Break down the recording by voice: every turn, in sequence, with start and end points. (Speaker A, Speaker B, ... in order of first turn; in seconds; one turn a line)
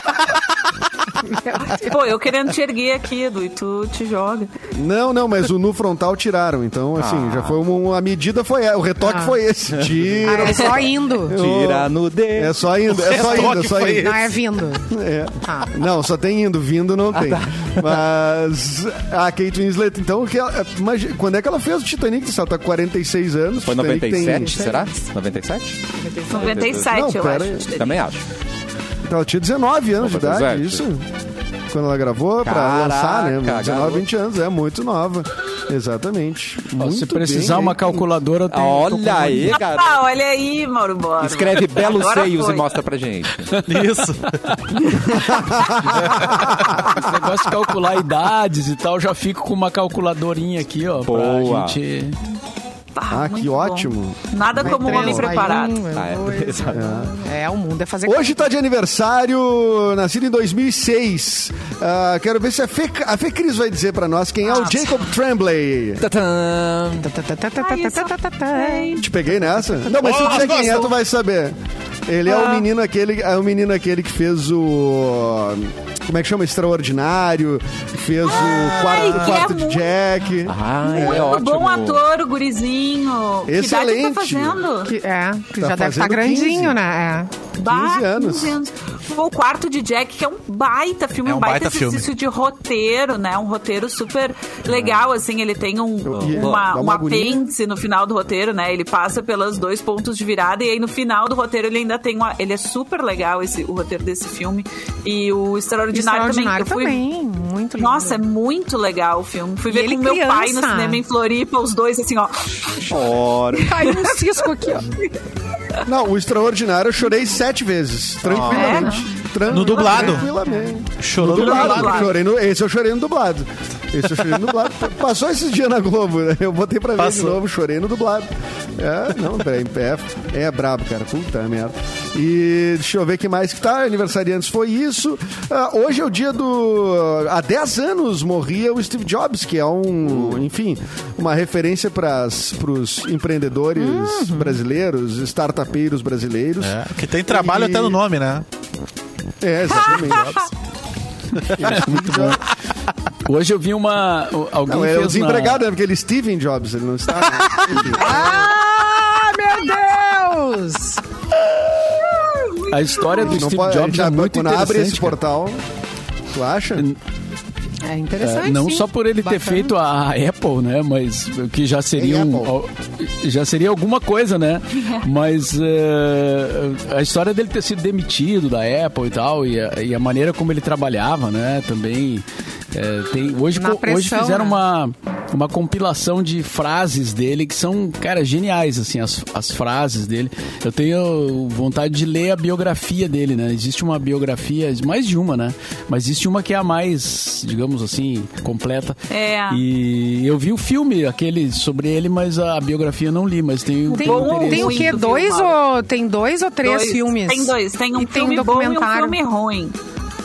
Speaker A: 1.4-1.9
Speaker B: 1.7-4.5
Speaker C: 4.7-14.3
Speaker D: 7.0-7.5
Speaker A: 9.0-9.3
Speaker A: 10.2-11.4
Speaker D: 11.3-13.5
Speaker E: 12.9-14.3
Speaker A: 13.9-14.9
Speaker C: 14.9-24.6
Speaker A: 15.4-15.7
Speaker D: 17.1-18.0
Speaker D: 23.6-26.9
Speaker A: 24.3-25.0
Speaker A: 25.9-26.8
Speaker B: 26.3-28.0
Speaker C: 26.9-27.7
Speaker D: 27.8-28.2
Speaker C: 29.0-31.1
Speaker D: 30.0-30.8
Speaker C: 31.7-38.1
Speaker D: 32.4-34.0
Speaker F: 36.8-39.6
Speaker D: 38.5-40.0
Speaker B: 39.5-42.7
Speaker D: 41.2-43.5
Speaker E: 43.6-44.4
Speaker F: 43.7-44.8
Speaker F: 45.8-52.2
Speaker C: 46.3-46.5
Speaker D: 51.0-51.8
Speaker B: 52.9-55.8
Speaker C: 53.1-55.4
Speaker A: 54.6-58.4
Speaker D: 55.9-56.8
Speaker C: 56.7-57.1
Speaker C: 58.0-66.1
Speaker B: 64.5-65.0
Speaker D: 66.0-67.1
Speaker A: 67.0-69.1
Speaker B: 67.6-69.0
Speaker C: 69.0-81.3
Speaker A: 69.6-70.3
Speaker E: 69.9-70.9
Speaker B: 72.3-72.6
Speaker B: 78.2-79.9
Speaker D: 80.4-82.0
Speaker B: 80.8-84.9
Speaker C: 83.5-84.6
Speaker A: 84.8-87.3
Speaker C: 85.6-86.8
Speaker B: 87.6-107.0
Speaker C: 87.6-88.6
Speaker E: 91.2-92.1
Speaker C: 96.1-97.4
Speaker D: 96.1-96.7
Speaker A: 105.9-108.2
Speaker B: 107.8-115.2
Speaker A: 109.7-111.0
Speaker D: 112.8-113.7
Speaker A: 113.6-114.9
Speaker C: 115.8-148.0
Speaker D: 118.3-119.0
Speaker B: 118.3-119.1
Speaker E: 119.5-120.3
Speaker B: 119.7-120.1
Speaker A: 119.9-120.7
Speaker E: 121.0-122.1
Speaker B: 121.2-122.2
Speaker E: 127.0-127.4
Speaker A: 143.8-144.6
Speaker E: 146.6-148.4
Speaker C: 149.4-150.4
Speaker E: 149.9-150.4
Speaker C: 151.5-152.4
Speaker F: 151.6-152.4
Speaker F: 153.2-155.6
Speaker C: 154.7-158.5
Speaker A: 157.9-161.0
Speaker B: 162.0-163.4
Speaker F: 162.7-165.2
Speaker C: 163.2-165.6
Speaker C: 166.3-166.9
Speaker A: 167.8-169.8
Speaker F: 168.2-199.0
Speaker C: 171.9-172.5
Speaker A: 183.5-184.6
Speaker B: 199.1-199.6
Speaker F: 199.5-205.0
Speaker A: 203.9-209.2
Speaker B: 203.9-205.6
Speaker B: 206.6-209.8